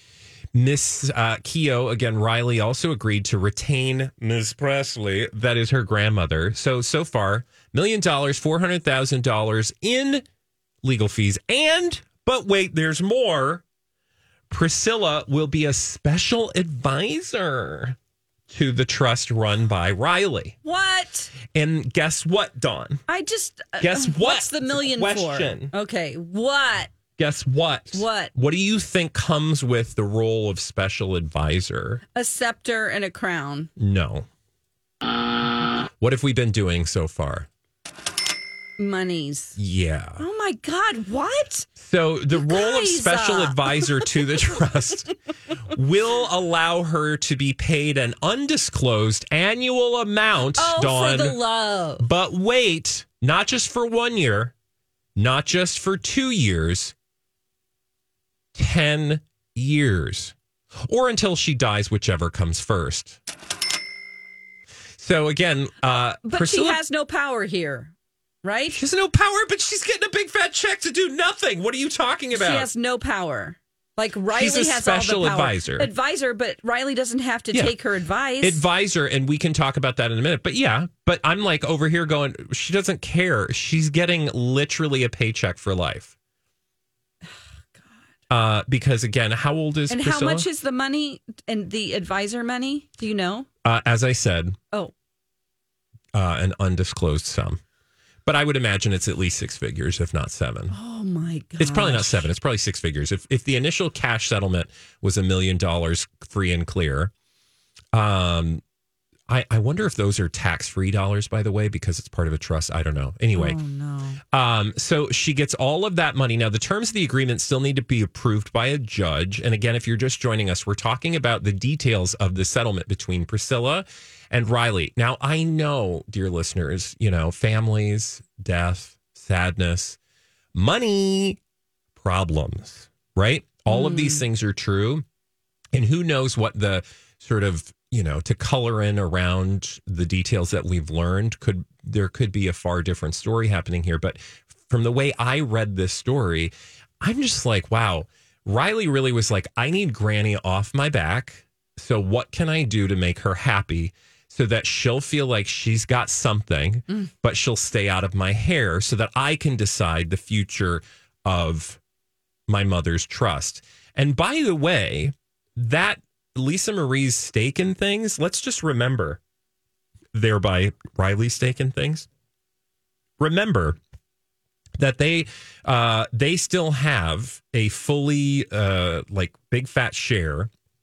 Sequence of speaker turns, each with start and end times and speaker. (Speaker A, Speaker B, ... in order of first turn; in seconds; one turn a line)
Speaker A: 0.5-10.2
Speaker A: 10.8-13.6
Speaker A: 14.5-17.9
Speaker A: 18.5-20.5
Speaker B: 20.6-21.3
Speaker A: 21.5-23.0
Speaker B: 23.1-26.9
Speaker A: 23.8-25.7
Speaker A: 27.2-32.0
Speaker B: 27.9-28.3
Speaker B: 32.1-33.7
Speaker A: 33.8-34.3
Speaker A: 36.0-37.5
Speaker B: 38.8-39.5
Speaker A: 39.6-40.2
Speaker B: 40.2-41.7
Speaker A: 41.8-45.1
Speaker B: 42.3-44.6
Speaker A: 45.7-51.4
Speaker B: 50.5-52.0
Speaker A: 52.0-54.5
Speaker A: 55.1-56.9
Speaker A: 58.5-60.3
Speaker A: 60.9-63.2
Speaker A: 65.0-66.8
Speaker B: 66.2-67.9
Speaker B: 68.4-68.8
Speaker A: 68.7-72.7
Speaker B: 72.3-78.6
Speaker A: 74.3-75.9
Speaker A: 78.4-86.1
Speaker A: 88.3-90.5
Speaker B: 89.9-93.5
Speaker A: 93.6-94.6
Speaker A: 96.1-97.6
Speaker A: 98.2-100.7
Speaker B: 100.7-102.3
Speaker A: 101.6-107.1
Speaker A: 107.9-108.6
Speaker A: 109.3-113.6
Speaker B: 113.3-114.2
Speaker A: 114.3-130.0
Speaker A: 130.5-131.4
Speaker A: 132.0-135.0
Speaker B: 133.7-134.2
Speaker A: 135.7-161.8
Speaker A: 162.5-169.2
Speaker A: 170.1-172.1
Speaker A: 173.2-173.8
Speaker A: 174.8-180.5